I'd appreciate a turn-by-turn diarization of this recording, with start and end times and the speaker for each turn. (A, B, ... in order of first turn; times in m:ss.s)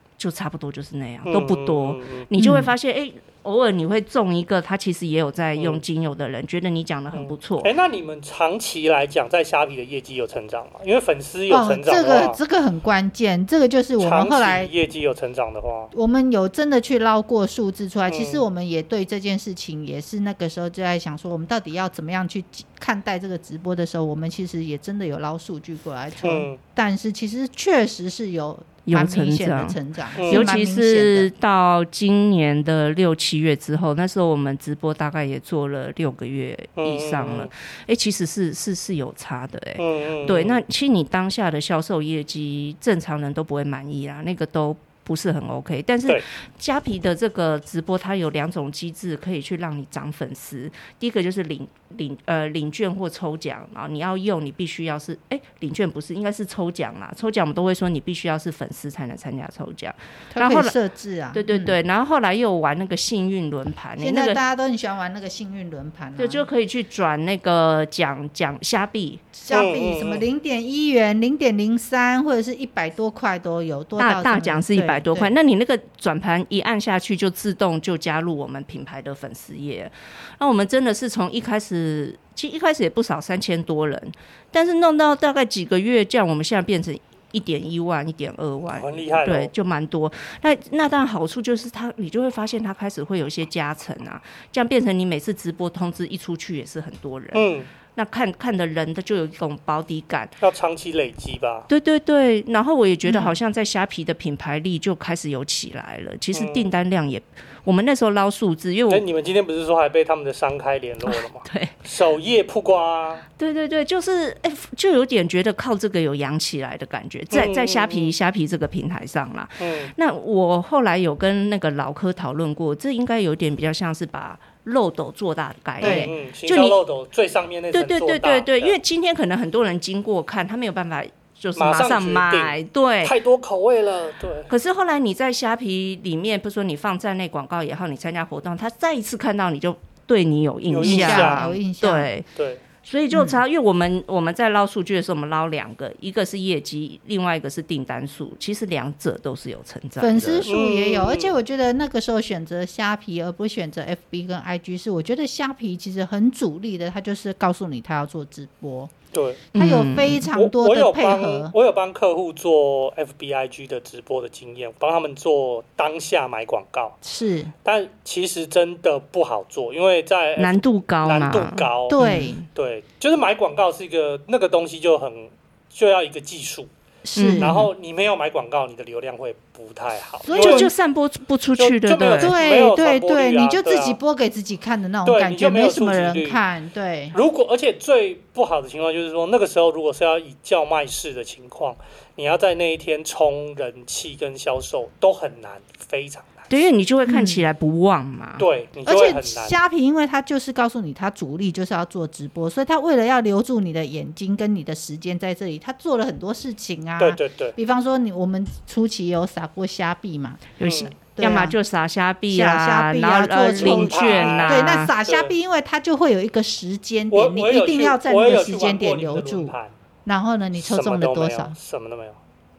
0:00.2-0:07.7 A
0:01.2-0:02.3 B
0:02.4-0:02.7 C
0:05.6-0:05.8 B
0:07.1-0:12.4 B
0:11.5-0:14.7 C
0:14.0-0:15.9 B
0:15.9-0:31.3 C
0:18.1-0:18.4 B
0:26.2-0:26.6 B
0:28.9-1:00.8 A
0:30.2-0:30.5 B
0:36.8-0:37.5 B
0:39.8-0:40.6 B
1:00.3-1:01.8 C
1:01.3-1:04.4 A
1:04.0-1:06.4 C
1:06.2-1:09.3 A
1:09.4-1:15.3 C
1:09.5-1:10.2 B
1:14.0-1:40.4 A
1:28.7-1:29.5 B
1:37.3-1:37.7 B
1:40.4-1:41.7 B
1:41.7-1:49.1 A
1:43.1-1:43.3 C
1:46.3-1:46.7 B
1:48.9-1:53.2 B
1:51.1-1:51.7 A
1:53.4-2:06.8 A
1:57.3-1:58.2 B
1:59.6-1:59.9 B
2:05.8-2:06.1 C
2:05.8-2:08.8 B
2:07.7-2:13.2 A
2:11.6-2:14.5 B
2:14.5-2:22.3 A
2:20.7-2:21.6 B
2:20.8-2:22.1 C
2:22.4-2:22.6 B
2:22.8-2:30.5 A
2:23.1-2:23.4 C
2:30.0-2:38.9 C
2:30.5-2:31.4 B
2:39.1-2:39.5 B
2:39.5-2:41.6 C
2:39.6-2:40.2 A
2:40.3-2:47.0 B
2:47.0-2:47.5 C
2:47.6-2:56.7 B
2:50.4-2:52.5 A
2:51.9-2:52.4 C
2:57.1-2:57.6 C
2:57.2-2:57.7 A
2:57.4-3:00.7 B
3:00.2-3:00.7 C
3:00.4-3:02.4 A
3:01.6-3:04.0 B
3:02.2-3:07.2 C
3:05.0-3:06.4 B
3:07.1-3:16.5 B
3:16.5-3:18.5 A
3:17.1-3:17.4 C
3:18.4-3:19.6 B
3:18.9-3:30.5 C
3:27.0-3:27.6 B
3:30.6-3:34.9 A
3:30.6-3:30.9 B
3:31.1-3:31.6 C
3:32.3-3:39.6 C
3:33.6-3:35.3 B
3:37.1-3:39.7 B
3:40.1-3:41.6 C
3:40.6-3:42.2 B